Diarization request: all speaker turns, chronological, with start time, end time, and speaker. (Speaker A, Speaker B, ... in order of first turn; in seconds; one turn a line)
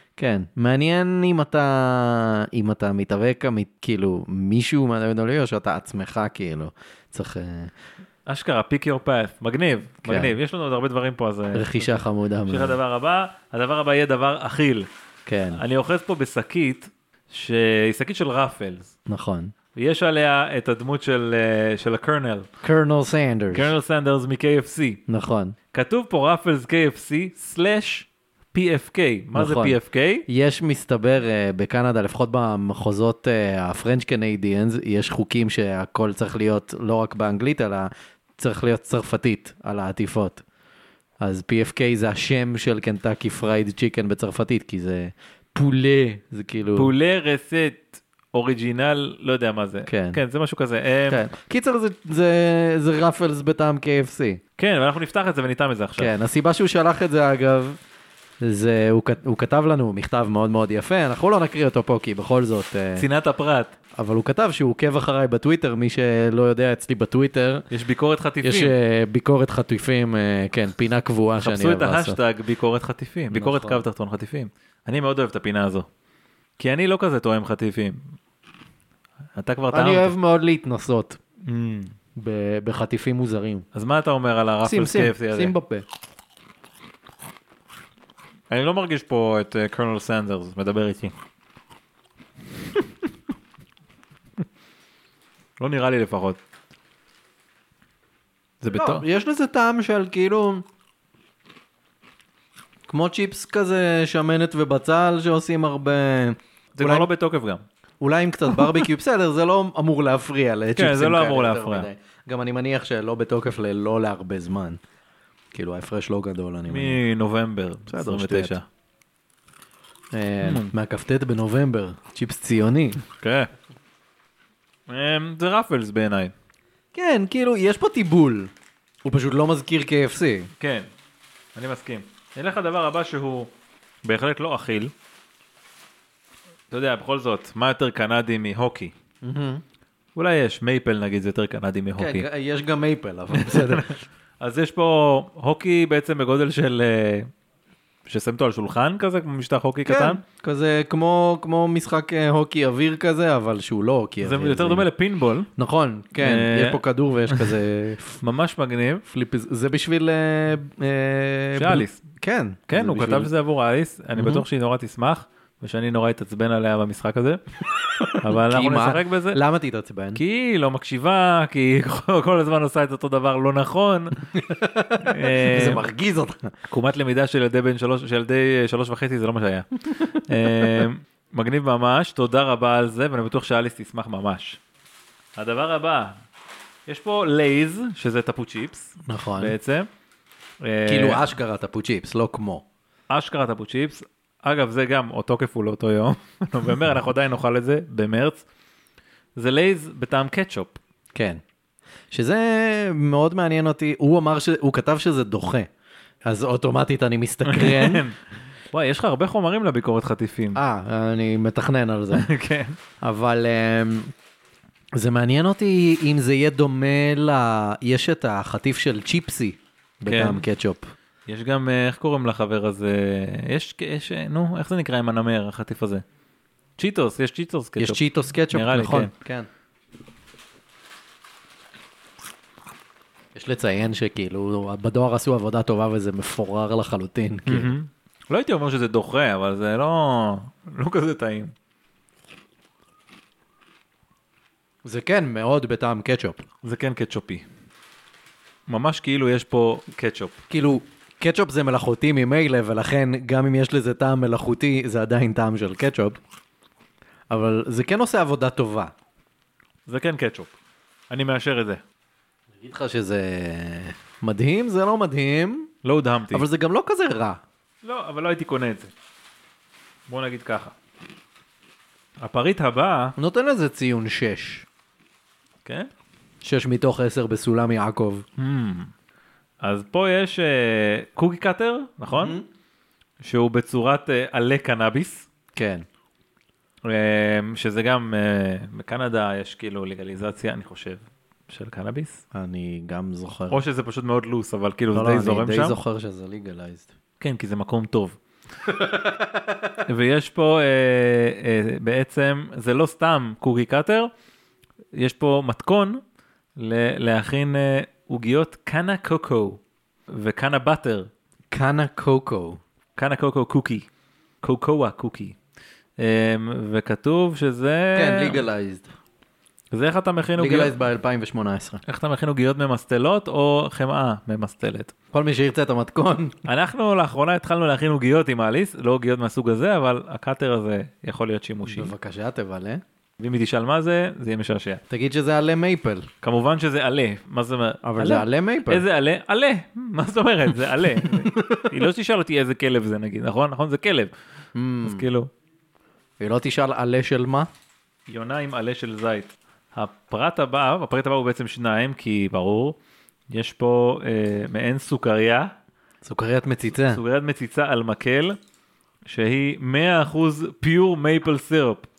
Speaker A: 0.2-7.7
Speaker B: 8.3-14.9
Speaker A: 10.1-10.4
Speaker A: 11.5-12.8
Speaker A: 15.3-15.6
Speaker B: 15.5-18.9
Speaker A: 19.1-19.5
Speaker B: 19.8-22.5
Speaker A: 22.6-23.7
Speaker B: 23.5-25.0
Speaker A: 25.1-25.6
Speaker B: 25.7-30.2
Speaker A: 29.4-40.4
Speaker A: 41.2-46.9
Speaker B: 46.8-51.2
Speaker A: 49.9-50.2
Speaker A: 51.1-54.4
Speaker B: 54.6-56.1
Speaker A: 56.0-57.8
Speaker A: 58.4-63.1
Speaker B: 63.0-63.7
Speaker A: 64.0-67.7
Speaker B: 67.7-68.7
Speaker A: 68.4-72.2
Speaker B: 71.4-75.9
Speaker A: 73.3-73.8
Speaker B: 76.6-78.0
Speaker B: 79.3-80.1
Speaker A: 79.7-81.2
Speaker B: 81.4-81.9
Speaker A: 82.2-83.7
Speaker B: 83.7-85.5
Speaker A: 84.6-85.8
Speaker B: 88.5-91.2
Speaker B: 95.6-96.4
Speaker B: 98.6-99.0
Speaker A: 98.7-100.7
Speaker A: 102.9-107.1
Speaker B: 106.8-107.6
Speaker A: 108.0-114.8
Speaker B: 108.5-108.8
Speaker B: 110.8-111.9
Speaker A: 115.5-117.0
Speaker B: 116.7-118.7
Speaker A: 117.9-118.6
Speaker A: 120.1-123.0
Speaker B: 120.4-120.7
Speaker B: 123.1-123.5
Speaker B: 124.9-126.3
Speaker A: 126.9-128.5
Speaker A: 129.1-130.5
Speaker B: 130.6-130.9
Speaker B: 131.6-133.5
Speaker B: 134.0-134.9
Speaker B: 136.7-138.9
Speaker A: 139.2-139.6
Speaker B: 140.2-142.3
Speaker A: 142.0-143.9
Speaker B: 143.3-147.3
Speaker B: 148.1-150.2
Speaker A: 149.9-154.9
Speaker B: 154.2-155.5
Speaker A: 155.6-158.2
Speaker B: 156.2-157.6
Speaker B: 158.2-159.0
Speaker A: 159.1-163.3
Speaker B: 161.6-162.0
Speaker B: 162.7-167.4
Speaker A: 164.2-164.4
Speaker A: 167.8-170.2
Speaker B: 168.2-169.4
Speaker B: 170.2-174.2
Speaker A: 174.3-176.5
Speaker B: 175.0-175.8
Speaker B: 176.7-184.6
Speaker A: 180.0-180.8
Speaker B: 185.4-186.2
Speaker B: 186.9-189.9
Speaker A: 189.0-189.6
Speaker B: 190.6-191.2
Speaker A: 190.9-192.7
Speaker B: 193.1-198.4
Speaker B: 199.4-200.8
Speaker A: 201.2-201.4
Speaker A: 202.1-205.7
Speaker A: 206.3-208.1
Speaker B: 207.5-210.6
Speaker A: 210.6-212.3
Speaker B: 212.1-212.8
Speaker A: 213.0-214.1
Speaker A: 215.0-220.9
Speaker B: 220.1-220.4
Speaker B: 221.3-226.1
Speaker B: 226.8-229.1
Speaker A: 227.8-229.5
Speaker A: 233.3-237.7
Speaker B: 237.5-241.5
Speaker A: 244.8-246.4
Speaker B: 246.6-247.5
Speaker B: 248.7-250.4
Speaker A: 250.5-256.2
Speaker A: 257.3-258.9
Speaker B: 259.9-260.5
Speaker B: 261.1-261.8
Speaker A: 262.6-265.7
Speaker B: 265.8-266.4
Speaker A: 266.3-267.4
Speaker B: 267.8-268.9
Speaker B: 270.1-270.8
Speaker B: 272.2-273.1
Speaker A: 273.2-274.7
Speaker B: 275.6-275.9
Speaker A: 276.4-278.2
Speaker B: 278.4-278.9
Speaker B: 279.6-282.4
Speaker A: 282.2-282.5
Speaker B: 283.2-285.3
Speaker A: 285.6-285.9
Speaker B: 286.8-292.2
Speaker A: 292.3-293.6
Speaker B: 293.5-295.8
Speaker A: 294.9-296.9
Speaker B: 297.2-298.2
Speaker A: 298.6-299.8
Speaker B: 299.9-304.1
Speaker B: 304.9-306.0
Speaker B: 306.6-311.1
Speaker A: 311.5-312.6
Speaker B: 313.0-313.9
Speaker B: 314.4-315.4
Speaker B: 316.0-318.4
Speaker A: 317.9-318.9
Speaker B: 319.7-320.8
Speaker A: 320.4-321.8
Speaker B: 321.9-324.9
Speaker A: 325.1-326.4
Speaker B: 326.5-331.9
Speaker A: 331.6-332.8
Speaker B: 333.2-334.8
Speaker A: 334.9-336.1
Speaker B: 336.2-344.1
Speaker A: 337.8-338.8
Speaker A: 341.0-341.7
Speaker A: 344.6-345.1
Speaker B: 344.8-345.3
Speaker A: 346.2-347.5
Speaker B: 348.1-352.8
Speaker B: 353.3-355.5
Speaker A: 356.0-357.0
Speaker B: 356.8-358.4
Speaker B: 359.1-361.9